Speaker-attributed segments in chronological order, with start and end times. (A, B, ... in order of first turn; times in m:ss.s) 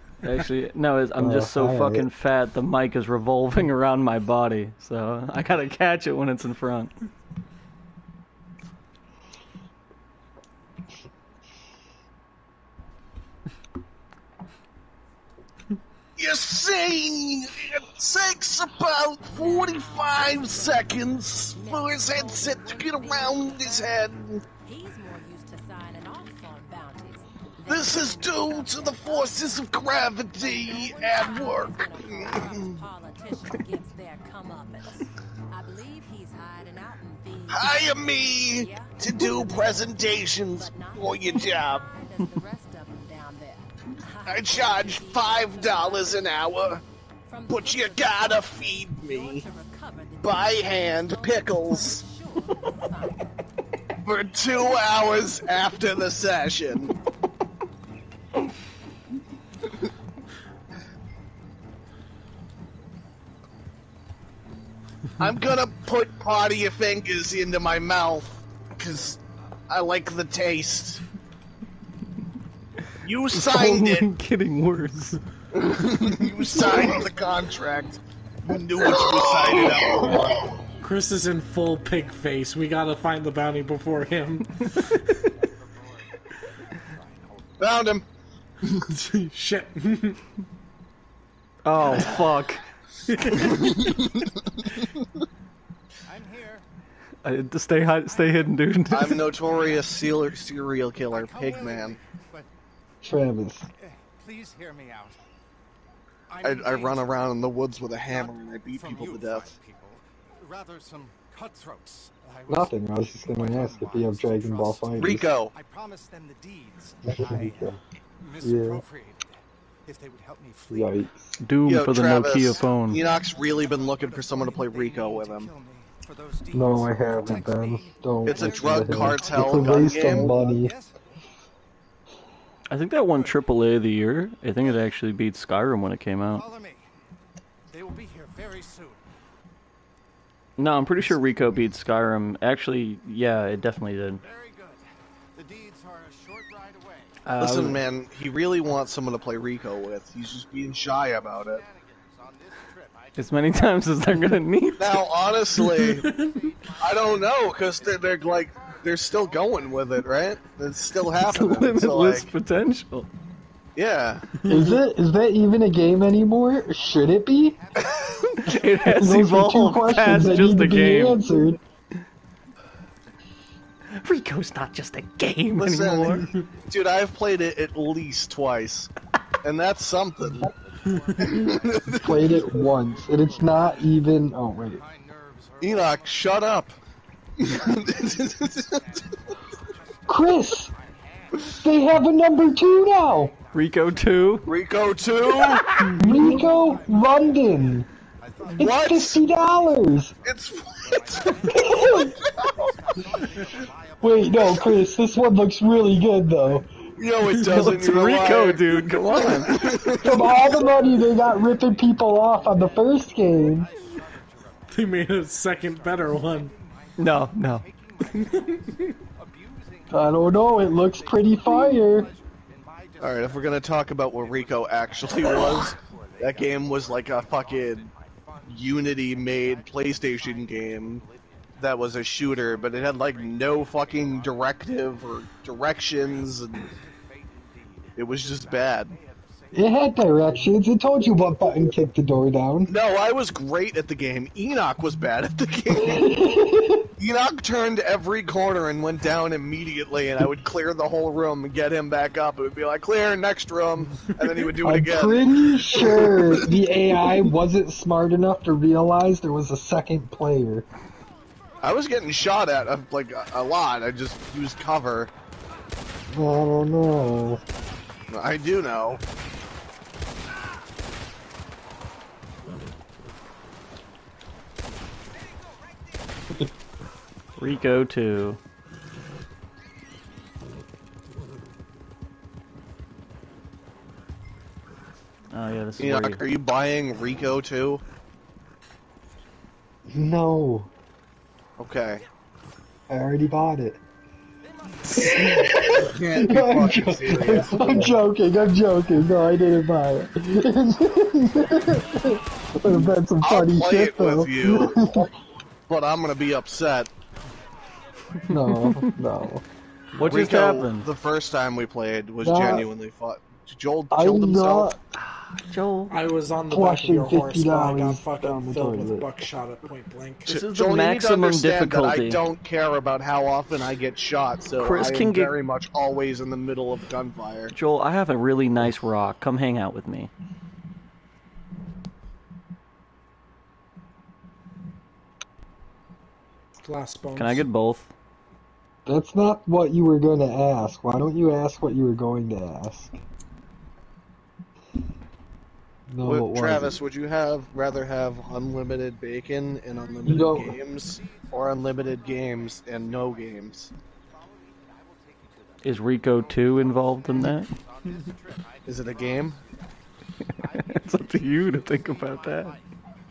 0:00.2-0:06.9 A
0:01.2-0:02.1 B
0:16.2-0:24.4 C
0:19.2-0:53.3 D
0:27.6-0:32.8 C
0:37.5-0:41.9 C
0:44.2-0:46.8 C
0:47.5-0:49.5 C
0:50.2-0:52.0 C
0:54.0-0:56.9 C
1:05.2-1:11.0 C
1:13.0-1:14.1 C
1:13.4-1:15.2 A
1:15.5-1:20.5 C
1:19.5-1:20.3 B
1:20.8-1:25.1 E
1:25.3-1:27.8 F
1:27.6-1:28.0 C
1:28.9-1:30.2 E
1:31.6-1:32.6 A
1:31.9-1:32.3 F
1:33.1-1:33.9 E
1:33.2-1:33.5 A
1:33.5-1:33.8 C
1:36.0-1:36.6 F
1:37.2-1:39.2 A
1:38.0-1:40.2 F
1:38.9-1:42.0 C
1:41.0-1:42.5 F
1:43.0-1:43.6 B
1:43.8-1:45.2 F
1:46.3-1:47.3 F
1:46.4-1:49.5 C
1:48.0-2:01.0 F
1:52.5-1:55.3 B
1:55.0-1:55.5 C
1:57.0-1:57.8 B
1:58.4-1:58.8 B
2:00.7-2:01.3 B
2:01.4-2:03.0 A
2:01.6-2:05.5 C
2:02.3-2:11.0 F
2:06.5-2:10.7 B
2:08.2-2:10.3 C
2:12.7-2:16.4 A
2:13.0-2:13.4 F
2:16.3-2:16.9 F
2:17.7-2:19.0 F
2:20.6-2:24.2 A
2:24.2-2:27.2 F
2:27.2-2:27.8 A
2:27.4-2:31.6 C
2:30.6-2:34.4 F
2:33.2-2:35.0 A
2:34.8-2:36.0 C
2:35.5-2:36.4 E
2:35.8-2:40.7 F
2:36.8-2:42.3 C
2:41.2-2:43.1 A
2:43.8-2:44.3 C
2:44.4-2:44.8 E
2:44.5-2:47.6 B
2:46.6-2:50.1 F
2:48.2-2:51.2 A
2:48.9-2:51.6 B
2:53.9-2:56.3 A
2:55.6-2:58.9 C
2:59.4-3:00.5 C
3:00.4-3:06.7 F
3:00.8-3:01.6 E
3:01.2-3:02.4 C
3:02.0-3:04.8 B
3:05.6-3:06.8 C
3:07.4-3:08.8 C
3:07.4-3:26.1 F
3:10.1-3:10.7 B
3:11.5-3:13.3 B
3:13.5-3:14.5 A
3:14.4-3:15.6 C
3:15.4-3:15.9 A
3:15.5-3:16.5 E
3:16.0-3:17.9 B
3:18.6-3:19.2 C
3:18.6-3:20.1 B
3:20.2-3:22.7 C
3:21.5-3:22.2 B
3:24.0-3:26.7 B
3:27.0-3:30.6 C
3:27.3-3:27.6 E
3:27.3-3:29.9 A
3:27.7-3:55.1 F
3:30.0-3:33.7 B
3:34.7-3:36.5 E
3:37.0-3:37.6 A
3:38.0-3:39.0 E
3:39.9-3:42.1 B
3:43.0-3:47.9 C
3:48.4-3:51.0 C
3:51.6-3:56.6 C
3:55.6-4:01.4 F
3:58.0-3:59.0 C
3:59.5-4:02.7 B
4:02.7-4:06.1 C
4:05.8-4:06.9 B
4:07.0-4:16.6 C
4:14.6-4:20.6 B
4:21.6-4:25.1 C
4:26.1-4:27.4 B
4:28.1-4:29.0 C
4:37.4-4:38.4 A
4:45.3-4:46.2 A
4:45.8-4:47.8 C
4:49.9-4:50.7 B
4:51.6-4:52.0 C
4:52.9-4:53.8 B
4:54.4-4:55.8 F
4:55.0-5:05.1 B
4:55.7-4:58.0 C
4:57.0-4:57.4 F
5:03.2-5:04.8 C
5:05.7-5:06.9 C
5:08.3-5:09.4 B
5:08.3-5:09.0 A
5:09.9-5:10.9 A
5:10.0-5:14.7 C
5:12.2-5:12.7 B
5:13.9-5:14.8 B
5:15.2-5:16.0 A
5:15.9-5:20.4 E
5:16.5-5:19.1 B
5:20.2-5:27.5 C
5:20.3-5:22.2 A
5:24.6-5:25.4 A
5:27.5-5:30.1 A
5:36.6-5:37.4 E
5:37.2-5:37.9 A
5:38.8-5:42.9 B
5:45.9-5:46.8 B
5:46.0-5:53.7 C
5:49.7-6:02.7 F
5:50.0-5:50.6 B
5:55.6-5:57.5 A
5:58.6-5:59.4 C
6:00.3-6:02.6 A